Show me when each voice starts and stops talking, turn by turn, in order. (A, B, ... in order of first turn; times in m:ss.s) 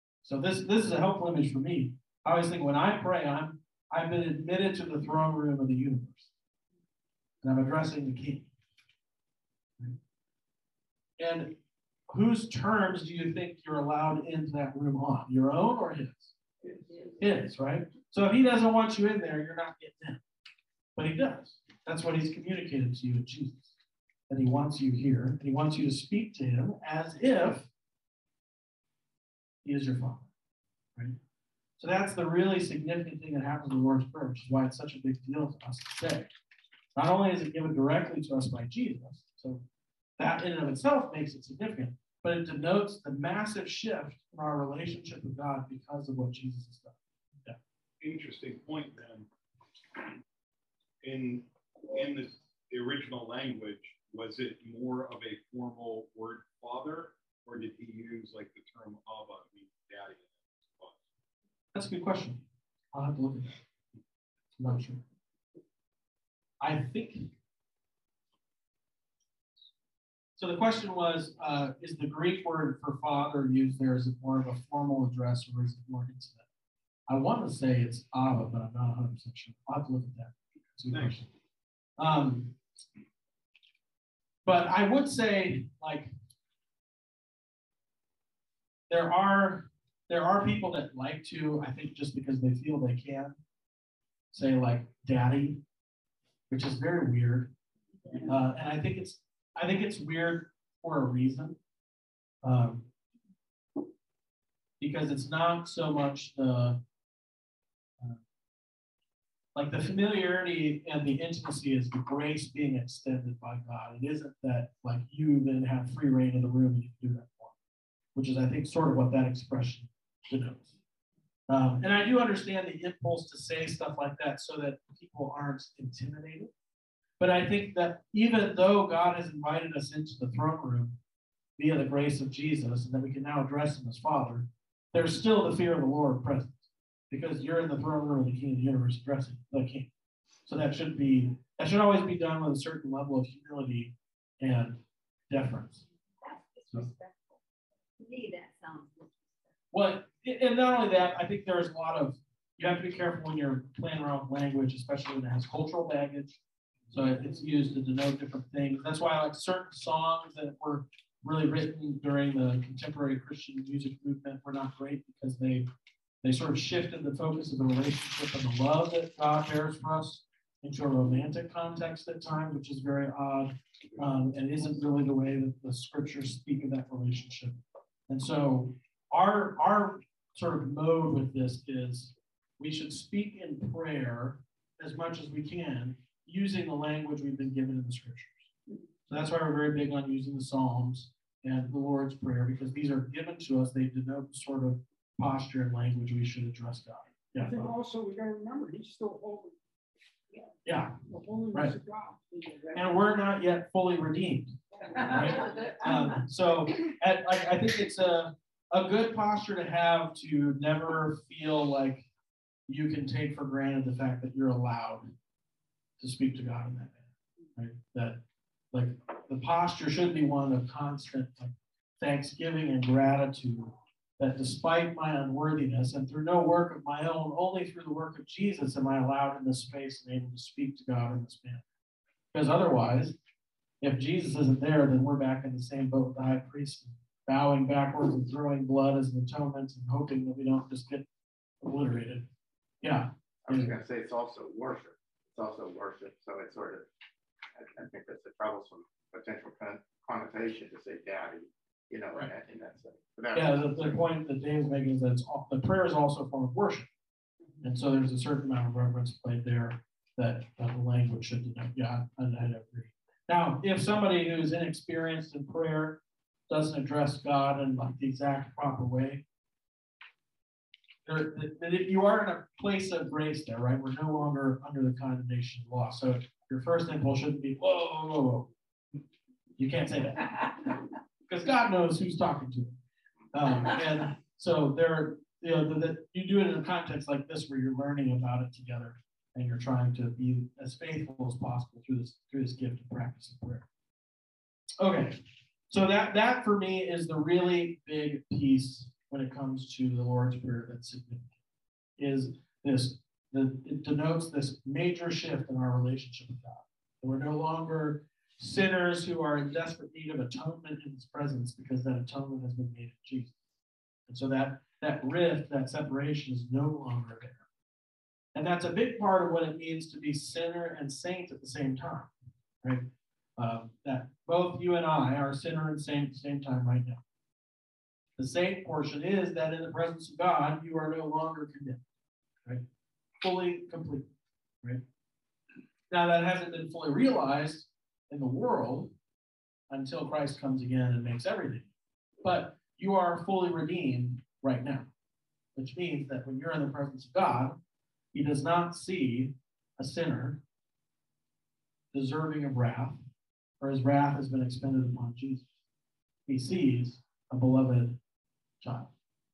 0:00.2-0:06.3 A
0:07.4-0:08.5 A
0:11.2-0:11.6 A
0:12.1-0:16.3 A
0:17.2-0:20.2 A
0:20.9-0:23.7 A
0:24.3-0:27.7 A
0:29.6-0:30.3 A
0:31.8-0:36.3 A
0:36.9-0:39.6 A
0:40.2-0:47.6 A
0:48.0-0:49.3 B
0:51.0-1:01.0 B
1:01.7-1:03.6 A
1:04.6-1:05.0 A
1:06.6-1:07.3 A
1:10.4-1:16.4 A
1:17.1-1:21.3 A
1:20.9-1:21.2 B
1:22.0-1:22.6 A
1:24.4-1:26.1 A
1:28.9-1:33.4 A
1:34.3-1:35.6 A
1:36.5-1:37.5 A
1:38.2-1:41.6 A
1:42.4-1:42.9 A
1:44.8-1:46.8 A
1:49.5-1:57.5 A
1:58.1-2:00.7 A
2:01.5-2:06.5 A
2:07.2-2:11.0 A
2:11.6-2:19.9 A
2:20.4-2:25.8 A
2:26.2-2:27.4 C
2:28.0-2:29.5 C
2:29.7-2:36.4 A
2:36.9-2:45.7 A
2:46.2-2:57.6 A
2:58.1-3:08.5 A
3:09.1-3:17.7 A
3:17.4-3:19.5 D
3:20.6-3:20.9 A
3:21.1-3:23.0 D
3:22.7-3:32.1 A
3:24.9-3:25.9 C
3:32.7-3:35.1 A
3:36.0-3:37.0 A
3:37.6-3:38.2 A
3:38.7-3:51.6 A
3:52.3-3:53.2 A
3:53.8-4:01.0 A
4:01.6-4:02.3 A
4:02.8-4:03.8 A
4:03.5-4:06.9 E
4:07.5-4:14.0 E
4:13.3-4:16.9 A
4:17.6-4:29.2 A
4:31.0-4:38.5 A
4:39.6-4:42.8 A
4:43.3-4:53.6 A
4:54.8-5:01.3 A
5:02.0-5:13.3 A
5:14.1-5:17.4 A
5:18.3-5:22.1 A
5:22.6-5:27.0 A
5:28.2-5:31.8 A
5:33.2-5:34.1 A
5:35.9-5:38.9 A
5:39.7-5:41.7 A
5:42.2-5:44.9 A
5:45.5-5:47.6 A
5:48.1-5:50.4 A
5:51.9-5:53.0 A
5:53.6-5:55.5 A
5:56.3-5:58.0 A
5:58.6-5:58.9 A